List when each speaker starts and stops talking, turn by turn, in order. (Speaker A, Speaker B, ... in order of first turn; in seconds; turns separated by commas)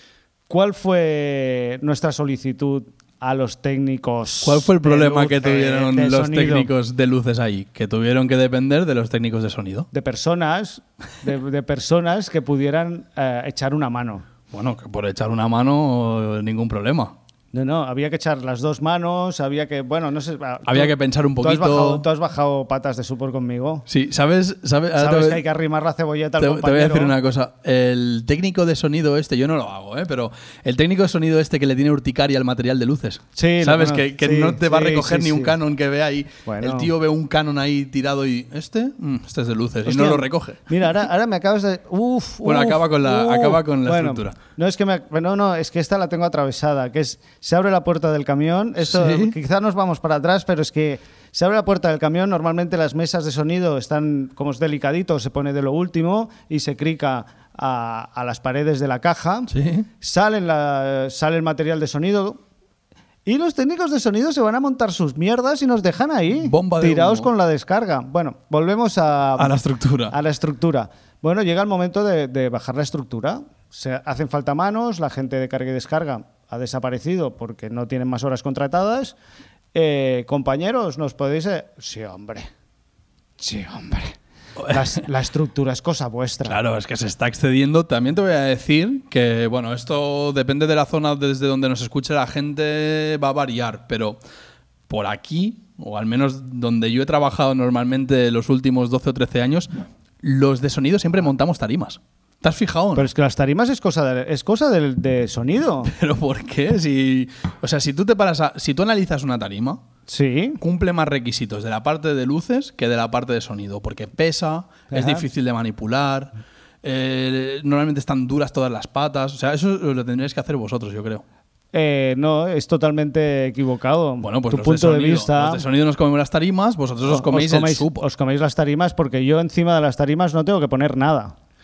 Speaker A: 0.5-6.7, Speaker B: 4.4-9.9, Speaker A: 9.9-14.3, Speaker B: 14.5-17.2, Speaker A: 17.5-23.9, Speaker B: 20.7-22.1, Speaker B: 23.9-25.4, Speaker A: 25.0-27.2, Speaker B: 26.4-40.6, Speaker A: 33.4-35.5, Speaker A: 36.5-36.9, Speaker A: 39.9-62.4, Speaker B: 42.4-44.4, Speaker B: 48.8-49.4, Speaker B: 59.5-59.9, Speaker A: 63.3-69.5, Speaker B: 66.3-67.3, Speaker B: 69.4-70.2, Speaker A: 70.1-79.2, Speaker A: 79.7-82.5, Speaker A: 83.4-84.2, Speaker B: 84.6-85.0, Speaker A: 84.7-86.6, Speaker B: 86.5-94.2, Speaker B: 94.9-99.7, Speaker B: 100.2-103.1, Speaker A: 103.0-105.9, Speaker B: 105.9-109.8, Speaker A: 110.1-110.6, Speaker B: 110.6-116.3, Speaker A: 114.9-115.2, Speaker B: 116.8-121.2, Speaker A: 121.7-125.6, Speaker B: 124.2-128.1, Speaker A: 127.0-131.3